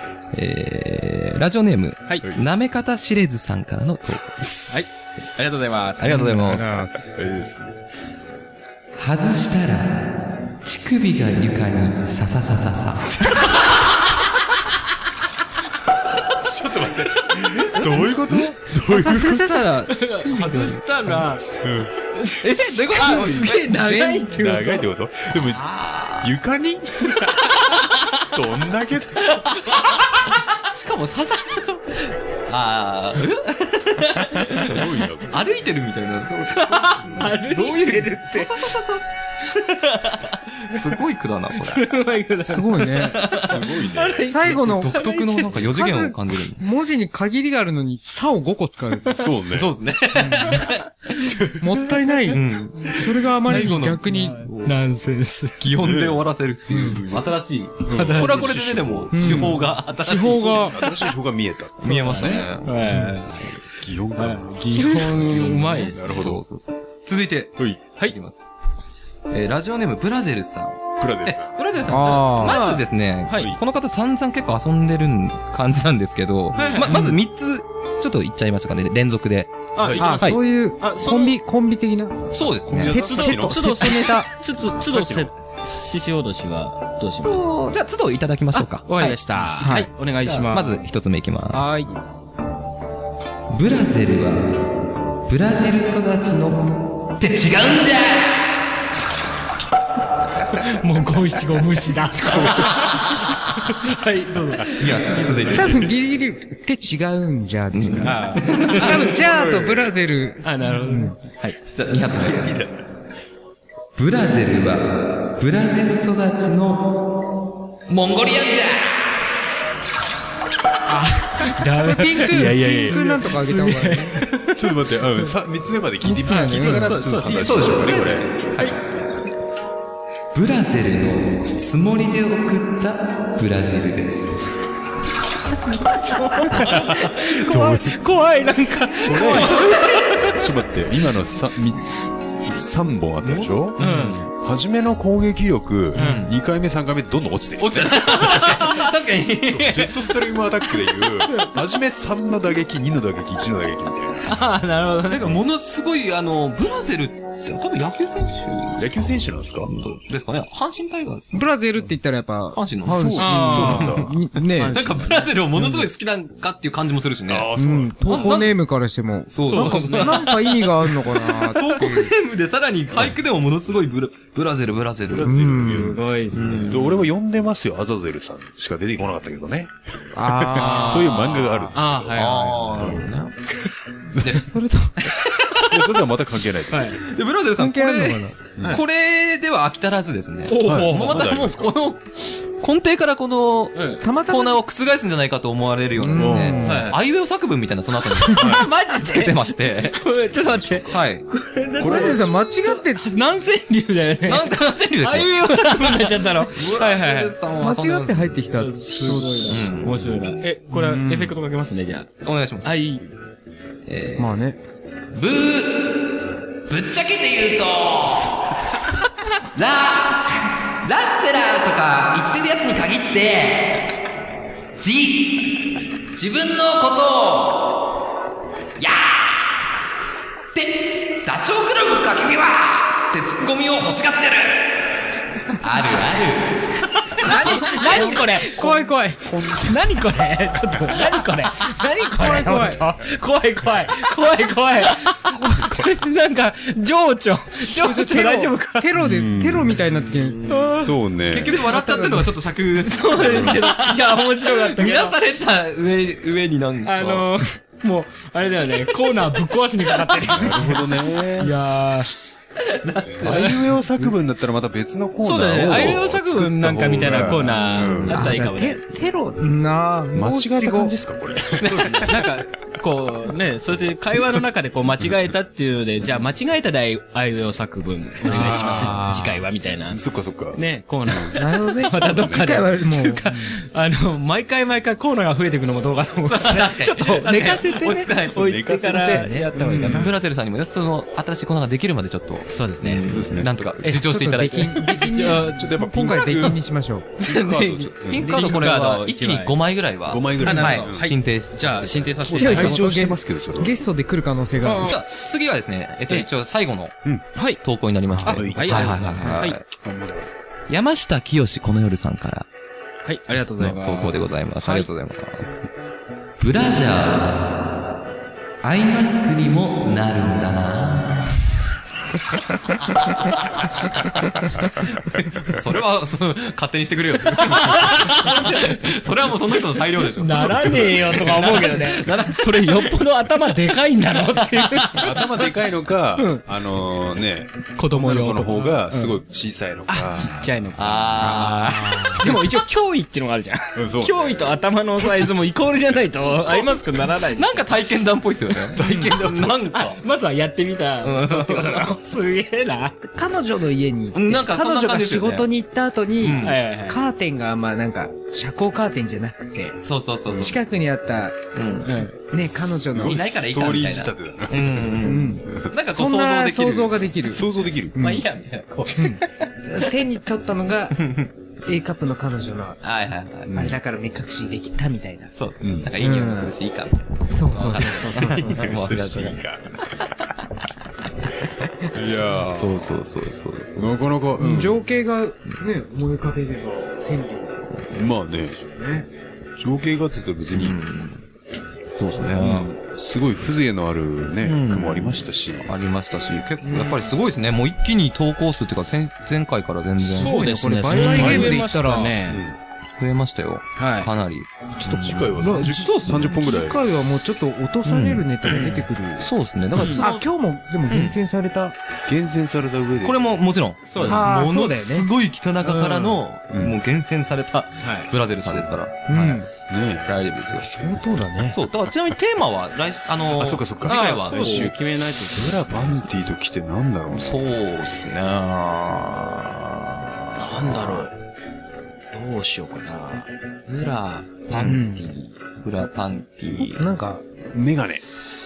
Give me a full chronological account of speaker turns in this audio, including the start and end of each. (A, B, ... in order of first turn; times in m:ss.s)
0:00.3-0:05.3 A
0:04.7-0:06.3 B
0:06.0-0:06.9 A
0:06.1-0:07.2 C
0:07.2-0:07.8 D
0:09.0-0:14.2 A
0:16.3-0:19.7 D
0:17.3-0:17.6 A
0:18.8-0:21.3 C
0:19.9-0:24.9 B
0:21.6-0:22.0 D
0:22.3-0:23.9 A
0:23.7-0:24.8 C
0:24.3-0:27.6 D
0:25.6-0:26.3 A
0:27.6-0:27.9 A
0:28.1-0:29.4 D
0:29.3-0:41.9 A
0:34.3-0:35.5 D
0:36.5-0:38.8 B
0:41.6-0:45.5 B
0:42.4-0:43.3 C
0:43.2-0:43.8 A
0:43.3-0:44.6 D
0:44.3-0:49.2 C
0:44.5-0:46.6 A
0:49.1-0:49.8 D
0:49.5-0:51.6 A
0:50.2-0:50.7 C
0:51.5-0:54.5 C
0:52.3-0:54.7 A
0:53.4-0:55.6 B
0:55.6-1:01.0 A
0:55.8-0:57.3 D
0:57.8-1:02.5 D
0:57.9-0:58.6 B
0:59.1-1:00.8 C
1:01.8-1:02.9 A
1:01.9-1:03.6 B
1:02.9-1:03.2 C
1:03.3-1:06.4 D
1:04.2-1:06.2 B
1:05.2-1:08.5 A
1:09.3-1:20.4 A
1:11.0-1:11.6 D
1:11.9-1:12.6 C
1:12.4-1:13.5 B
1:16.5-1:17.1 B
1:19.8-1:21.4 B
1:19.8-1:20.2 D
1:20.0-1:24.3 C
1:22.3-1:23.0 A
1:22.6-1:23.9 D
1:22.9-1:27.4 B
1:24.9-1:25.3 D
1:27.2-1:29.2 A
1:28.5-1:30.8 B
1:29.6-1:29.9 C
1:30.2-1:31.7 A
1:31.5-1:31.9 C
1:33.5-1:38.6 A
1:40.6-1:45.4 B
1:44.7-1:45.9 A
1:44.8-1:45.6 D
1:45.5-1:51.2 C
1:47.7-1:49.1 A
1:48.0-1:49.2 B
1:49.3-1:49.8 D
1:50.4-1:51.6 B
1:51.7-1:52.6 A
1:52.1-1:52.8 D
1:54.0-1:57.0 A
1:57.9-1:59.2 A
2:00.9-2:04.3 C
2:01.4-2:04.8 B
2:02.2-2:03.3 D
2:04.5-2:08.6 D
2:06.0-2:07.1 C
2:06.2-2:08.8 B
2:07.2-2:09.0 A
2:10.3-2:14.6 A
2:15.8-2:20.3 B
2:16.5-2:18.0 D
2:19.0-2:28.7 D
2:19.1-2:20.2 A
2:23.2-2:24.3 A
2:23.8-2:24.2 B
2:25.9-2:26.3 A
2:26.0-2:26.2 B
2:27.6-2:30.3 A
2:29.5-2:34.4 D
2:34.3-2:35.4 B
2:35.1-2:38.9 A
2:38.8-2:39.7 D
2:39.6-2:41.4 A
2:41.3-2:44.9 C
2:42.5-2:43.8 A
2:42.8-2:44.2 D
2:43.2-2:44.0 B
2:44.5-2:45.3 B
2:44.7-2:47.5 A
2:45.6-2:45.9 C
2:47.3-2:48.4 D
2:47.6-2:52.1 C
2:48.1-2:48.5 A
2:49.3-2:55.3 A
2:49.5-2:50.3 B
2:55.0-3:02.1 D
2:55.2-2:56.0 C
2:55.6-2:56.8 B
2:56.3-2:57.1 A
3:00.2-3:01.3 C
3:00.6-3:03.1 B
3:01.2-3:03.4 A
3:02.8-3:03.1 D
3:04.1-3:04.4 D
3:04.2-3:04.4 A
3:04.4-3:05.1 C
3:05.0-3:06.0 A
3:05.7-3:07.0 D
3:06.7-3:07.0 B
3:07.0-3:20.2 A
3:07.6-3:08.4 C
3:10.5-3:11.3 B
3:10.6-3:11.7 D
3:13.8-3:14.0 B
3:14.0-3:14.6 C
3:16.0-3:17.0 C
3:16.2-3:16.7 D
3:16.6-3:17.0 B
3:18.1-3:27.4 B
3:18.4-3:18.7 D
3:20.9-3:21.3 A
3:21.8-3:22.3 D
3:21.8-3:23.0 C
3:24.3-3:28.4 A
3:27.6-3:29.6 C
3:28.5-3:32.1 B
3:29.5-3:30.0 A
3:30.7-3:31.3 C
3:32.2-3:32.8 A
3:32.6-3:33.1 B
3:33.9-3:34.3 A
3:34.2-3:34.6 C
3:35.1-3:38.6 A
3:39.5-3:43.9 A
3:44.8-3:48.0 A
3:48.8-3:49.6 A
3:50.5-3:54.8 A
3:55.5-3:58.3 A
3:57.2-3:58.8 B
3:57.7-3:59.4 C
3:59.2-3:59.8 D
3:59.6-4:08.9 B
4:02.2-4:02.8 C
4:05.3-4:05.6 C
4:07.8-4:10.6 C
4:09.0-4:09.9 D
4:10.5-4:10.9 B
4:10.5-4:11.6 D
4:11.3-4:17.4 A
4:11.7-4:12.4 C
4:12.8-4:15.2 B
4:13.2-4:13.6 D
4:16.8-4:22.1 B
4:20.3-4:22.0 D
4:22.8-4:23.7 B
4:22.9-4:23.4 A
4:23.1-4:28.4 D
4:25.2-4:28.8 B
4:25.6-4:26.0 A
4:28.1-4:30.9 C
4:30.1-4:32.2 D
4:31.6-4:32.2 A
4:31.6-4:50.1 B
4:38.2-4:39.1 D
4:38.3-4:39.4 C
4:39.9-4:42.7 D
4:41.3-4:43.6 C
4:46.3-4:55.3 A
4:48.3-4:50.1 D
4:49.6-4:50.1 C
4:52.5-4:53.1 B
4:53.0-4:53.6 D
4:53.9-4:57.1 C
4:54.6-4:55.8 B
4:55.2-4:56.6 D
4:57.2-4:58.3 D
4:57.2-5:02.4 A
4:58.2-4:59.6 B
4:58.3-4:58.6 C
5:00.1-5:01.1 D
5:00.4-5:03.0 B
5:02.2-5:03.8 D
5:02.4-5:05.0 C
5:04.6-5:05.0 B
5:04.8-5:09.6 A
5:08.1-5:08.5 C
5:08.3-5:10.3 D
5:08.3-5:09.6 B
5:10.7-5:12.5 A
5:13.0-5:14.9 B
5:13.6-5:15.6 A
5:16.4-5:17.7 A
5:18.6-5:21.3 A
5:22.8-5:33.1 A
5:27.4-5:28.6 B
5:30.2-5:35.6 B
5:30.4-5:31.2 D
5:34.4-5:35.1 A
5:34.9-5:40.4 D
5:36.2-5:36.4 B
5:37.8-5:39.2 B
5:39.9-5:47.7 B
5:40.8-5:42.4 A
5:41.7-5:42.2 C
5:43.8-5:44.4 D
5:46.4-5:46.8 A
5:47.4-5:50.0 A
5:48.7-5:49.8 D
5:48.8-5:49.1 C
5:49.7-5:53.0 B
5:51.0-5:52.0 A
5:53.0-5:59.8 C
5:54.1-5:55.5 A
5:56.2-5:56.6 A
5:56.4-5:57.0 B
5:59.8-6:00.6 A
6:00.3-6:00.6 D
6:00.3-6:01.4 C
6:01.6-6:02.1 A
6:01.8-6:02.2 B
6:02.3-6:03.3 C
6:02.4-6:05.7 D
6:03.0-6:07.1 A
6:05.0-6:08.3 C
6:07.3-6:08.0 D
6:08.0-6:09.3 A
6:09.0-6:12.8 C
6:11.0-6:11.3 A
6:12.8-6:13.5 A
6:13.5-6:13.8 D
6:13.5-6:15.3 C
6:15.3-6:19.4 A
6:15.6-6:15.9 D
6:16.0-6:16.5 C
6:17.3-6:18.6 C
6:17.8-6:20.3 D
6:21.9-6:22.9 D
6:22.6-6:24.0 A
6:23.8-6:24.8 D
6:24.4-6:27.7 C
6:27.9-6:28.8 D
6:28.8-6:29.1 C
6:29.6-6:30.8 D
6:30.5-6:31.2 A
6:32.0-6:32.7 A
6:32.4-6:35.7 D
6:34.4-6:40.4 A
6:36.6-6:37.0 C
6:40.0-6:42.4 B
6:40.2-6:42.2 C
6:40.9-6:41.7 D
6:42.2-6:42.6 D
6:43.0-6:46.2 A
6:43.8-6:44.1 B
6:44.8-6:46.8 D
6:45.4-6:49.3 C
6:47.9-6:50.3 A
6:49.8-6:50.1 B
6:50.0-6:51.8 C
6:50.9-6:51.2 A
6:52.1-6:53.2 D
6:53.0-6:59.5 A
6:53.9-6:54.4 B
6:54.1-6:55.1 C
6:55.6-6:56.2 B
6:56.5-6:56.8 D
6:57.8-6:58.1 B
6:59.1-6:59.5 C
6:59.7-7:01.4 D
7:00.0-7:00.9 A
7:00.7-7:01.6 C
7:01.5-7:04.7 A
7:03.4-7:07.5 D
7:03.9-7:06.0 B
7:07.1-7:11.1 A
7:10.4-7:11.1 B
7:12.1-7:15.4 B
7:14.5-7:14.8 A
7:14.6-7:15.1 C
7:15.6-7:16.9 A
7:16.6-7:17.2 C
7:17.5-7:18.1 D